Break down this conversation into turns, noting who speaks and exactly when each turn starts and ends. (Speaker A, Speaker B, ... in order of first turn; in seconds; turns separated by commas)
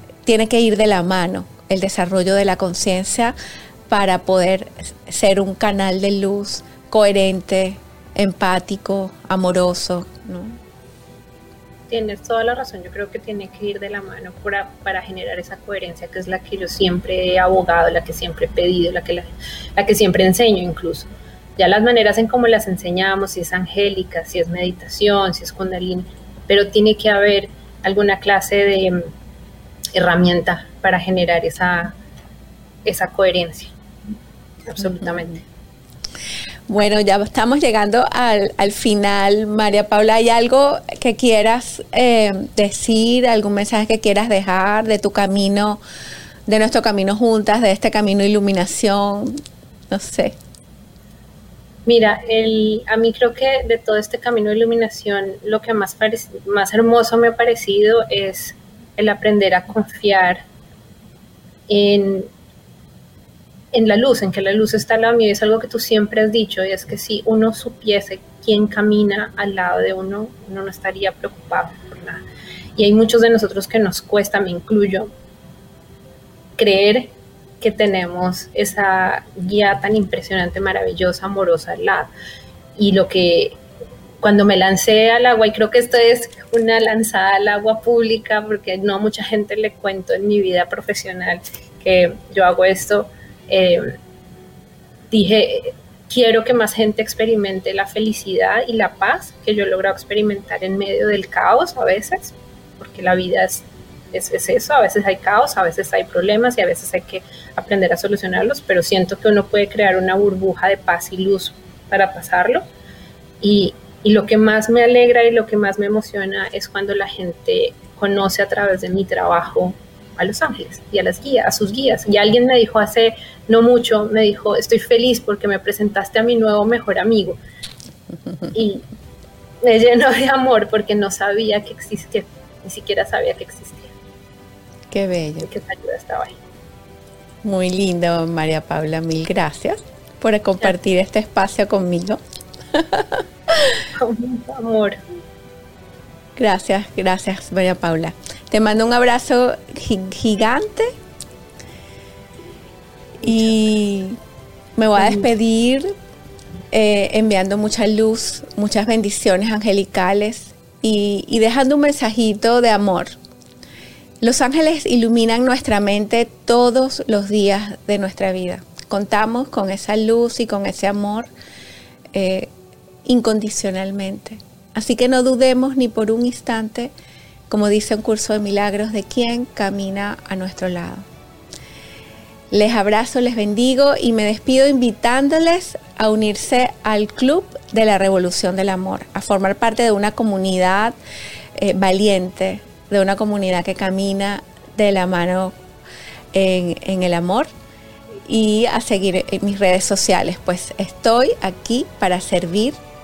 Speaker A: 0.2-3.3, Speaker A: 3.9-10.6, Speaker B: 11.9-29.1, Speaker B: 29.9-31.9, Speaker B: 32.8-33.7, Speaker B: 34.6-35.3, Speaker A: 34.8-35.4, Speaker A: 36.7-45.8, Speaker A: 46.5-49.3, Speaker A: 49.9-50.4, Speaker B: 51.9-60.4, Speaker B: 61.7-62.3, Speaker B: 63.7-72.2, Speaker B: 72.8-75.1, Speaker B: 76.6-82.1, Speaker B: 82.8-83.6, Speaker B: 84.2-94.0, Speaker B: 95.1-112.6, Speaker B: 113.4-127.4, Speaker B: 128.5-128.8, Speaker B: 129.6-133.9, Speaker A: 134.9-135.5, Speaker B: 135.4-136.3, Speaker A: 137.4-142.2, Speaker A: 142.7-143.2, Speaker B: 143.9-145.0, Speaker A: 146.3-150.9, Speaker A: 153.2-154.2, Speaker A: 154.8-155.9, Speaker B: 155.0-155.2, Speaker A: 156.7-163.2, Speaker A: 164.2-171.3, Speaker A: 172.1-172.5, Speaker A: 173.0-176.9, Speaker A: 177.5-181.1, Speaker A: 182.5-190.9, Speaker A: 191.6-195.5, Speaker A: 196.3-197.5, Speaker A: 198.2-202.8